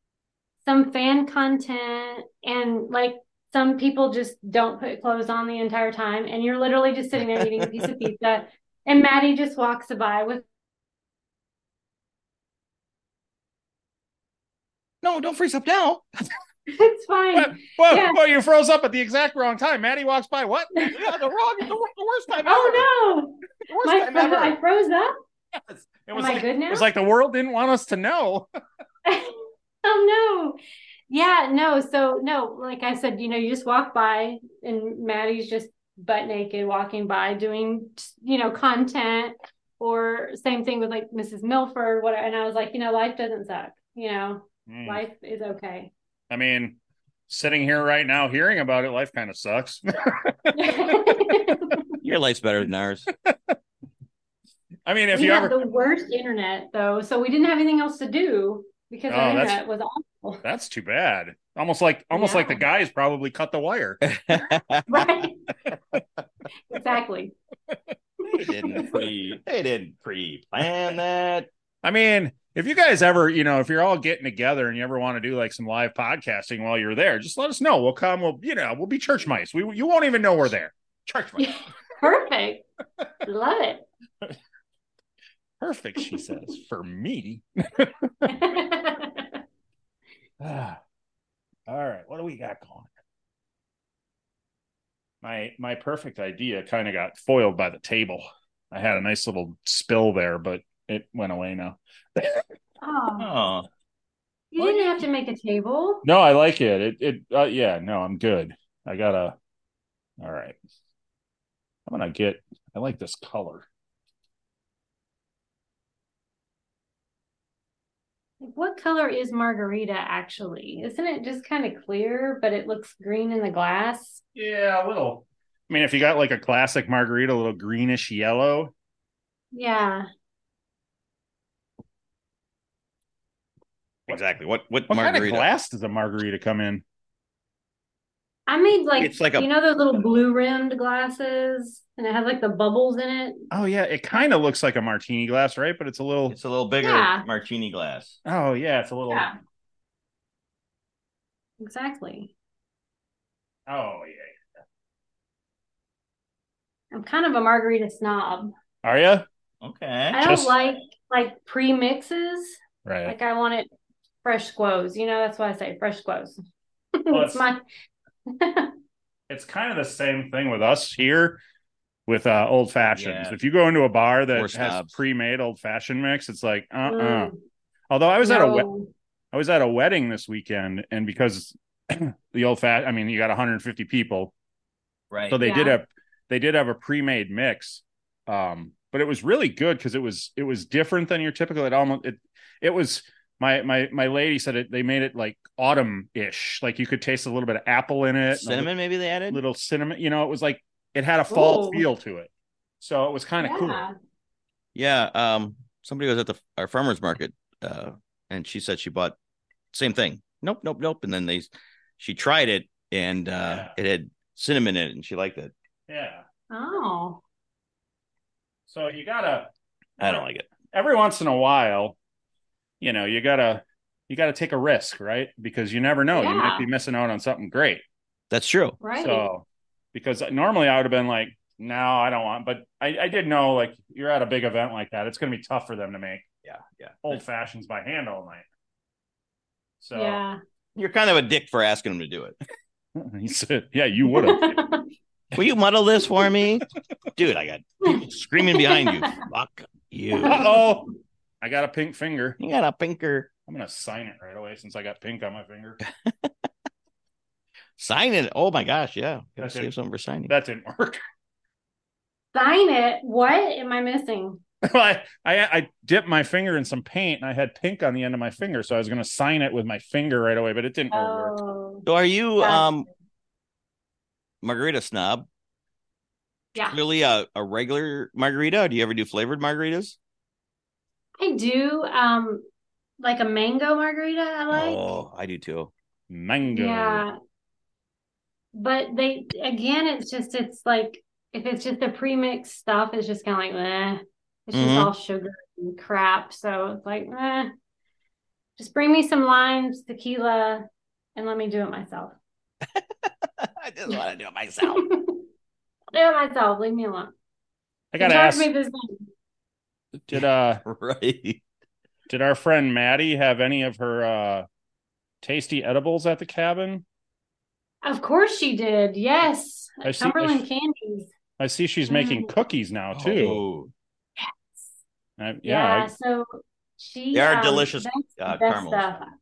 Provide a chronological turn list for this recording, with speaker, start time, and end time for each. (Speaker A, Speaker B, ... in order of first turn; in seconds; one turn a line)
Speaker A: 0.7-10.4
Speaker B: 15.0-16.1
Speaker A: 16.7-18.2
Speaker C: 17.4-21.0
Speaker B: 20.9-22.9
Speaker A: 22.4-25.1
Speaker B: 23.7-24.6
Speaker C: 25.6-28.5
Speaker A: 26.1-26.9
Speaker A: 29.1-30.6
Speaker A: 31.1-45.9
Speaker C: 44.7-45.0
Speaker C: 46.3-51.8
Speaker A: 50.6-52.0
Speaker B: 52.0-53.1
Speaker C: 53.2-53.5
Speaker C: 54.9-55.6
Speaker A: 55.1-60.5
Speaker C: 59.1-59.6
Speaker C: 60.4-64.0
Speaker A: 62.1-62.6
Speaker B: 64.0-65.1
Speaker A: 64.9-65.4
Speaker A: 66.7-67.3
Speaker B: 68.3-71.5
Speaker C: 68.4-69.1
Speaker A: 68.4-68.8
Speaker C: 71.8-81.7
Speaker A: 81.4-82.7
Speaker A: 83.2-83.9
Speaker C: 85.6-88.6
Speaker A: 88.3-89.4
Speaker C: 90.4-90.8
Speaker C: 91.7-92.9
Speaker C: 95.2-102.4
Speaker A: 102.8-103.3
Speaker B: 103.2-103.7
Speaker A: 104.5-106.1
Speaker C: 106.0-109.3
Speaker C: 110.2-110.6
Speaker C: 111.9-113.7
Speaker A: 118.4-124.2
Speaker C: 124.3-128.7
Speaker A: 129.5-130.1
Speaker B: 134.1-135.5
Speaker C: 134.9-136.8
Speaker A: 138.5-143.5
Speaker B: 139.0-139.5
Speaker C: 143.5-146.4
Speaker B: 146.3-148.2
Speaker A: 146.8-147.3
Speaker C: 148.2-149.4
Speaker A: 149.1-149.3
Speaker A: 151.6-152.3
Speaker C: 153.7-154.3
Speaker A: 156.9-158.5
Speaker C: 158.8-159.3
Speaker B: 159.6-160.3
Speaker A: 160.1-163.7
Speaker C: 160.2-160.5
Speaker C: 162.8-163.2
Speaker A: 164.2-166.4
Speaker A: 167.0-167.6
Speaker C: 167.1-167.5
Speaker A: 168.3-168.7
Speaker C: 169.3-171.4
Speaker C: 172.1-177.3
Speaker B: 172.9-173.4
Speaker B: 174.3-175.0
Speaker A: 176.9-177.4
Speaker C: 177.9-178.7
Speaker A: 178.2-178.9
Speaker C: 179.3-184.3
Speaker B: 185.1-185.4
Speaker C: 185.3-198.7
Speaker A: 185.4-185.8
Speaker B: 198.3-199.4
Speaker C: 199.3-202.3
Speaker A: 201.3-201.8
Speaker C: 202.8-203.8
Speaker A: 203.4-203.9
Speaker B: 204.8-209.2
Speaker B: 209.7-215.5
Speaker C: 213.4-213.7
Speaker C: 215.9-216.2
Speaker A: 216.5-217.2
Speaker C: 218.7-222.0
Speaker B: 220.0-220.5
Speaker C: 222.8-227.8
Speaker A: 226.1-226.7
Speaker B: 228.3-228.8
Speaker A: 228.8-229.3
Speaker C: 229.0-236.3
Speaker B: 236.4-237.2
Speaker C: 237.0-238.5
Speaker C: 239.8-240.2
Speaker A: 239.9-240.4
Speaker B: 240.8-242.4
Speaker C: 243.0-244.7
Speaker A: 244.1-244.9
Speaker B: 245.3-246.7
Speaker B: 247.2-250.5
Speaker A: 247.8-249.2
Speaker A: 250.2-250.7
Speaker C: 250.2-250.9
Speaker C: 251.4-252.4
Speaker B: 252.4-253.3
Speaker C: 253.5-255.8
Speaker B: 256.1-256.3
Speaker B: 257.8-260.3
Speaker C: 259.4-259.7
Speaker C: 260.3-261.0
Speaker A: 262.3-264.4
Speaker C: 264.6-271.4
Speaker A: 270.9-271.9
Speaker B: 271.9-272.9
Speaker A: 272.4-272.7
Speaker B: 274.4-275.3
Speaker B: 276.7-280.0
Speaker A: 281.2-282.5
Speaker A: 283.0-284.9
Speaker B: 284.5-285.7
Speaker C: 286.1-287.0
Speaker A: 286.5-287.2
Speaker A: 288.5-297.5
Speaker B: 294.5-294.9
Speaker A: 298.6-302.1
Speaker B: 302.8-304.9
Speaker A: 304.6-305.2
Speaker A: 305.9-307.1
Speaker C: 307.9-308.5
Speaker A: 308.0-309.1
Speaker C: 310.1-310.6
Speaker B: 310.1-311.4
Speaker C: 312.1-314.5
Speaker C: 315.2-316.8
Speaker A: 317.8-321.1
Speaker C: 319.8-320.4
Speaker C: 321.4-323.4
Speaker A: 321.9-322.3
Speaker B: 322.9-323.7
Speaker C: 325.2-325.9
Speaker A: 325.4-329.1
Speaker B: 327.1-328.9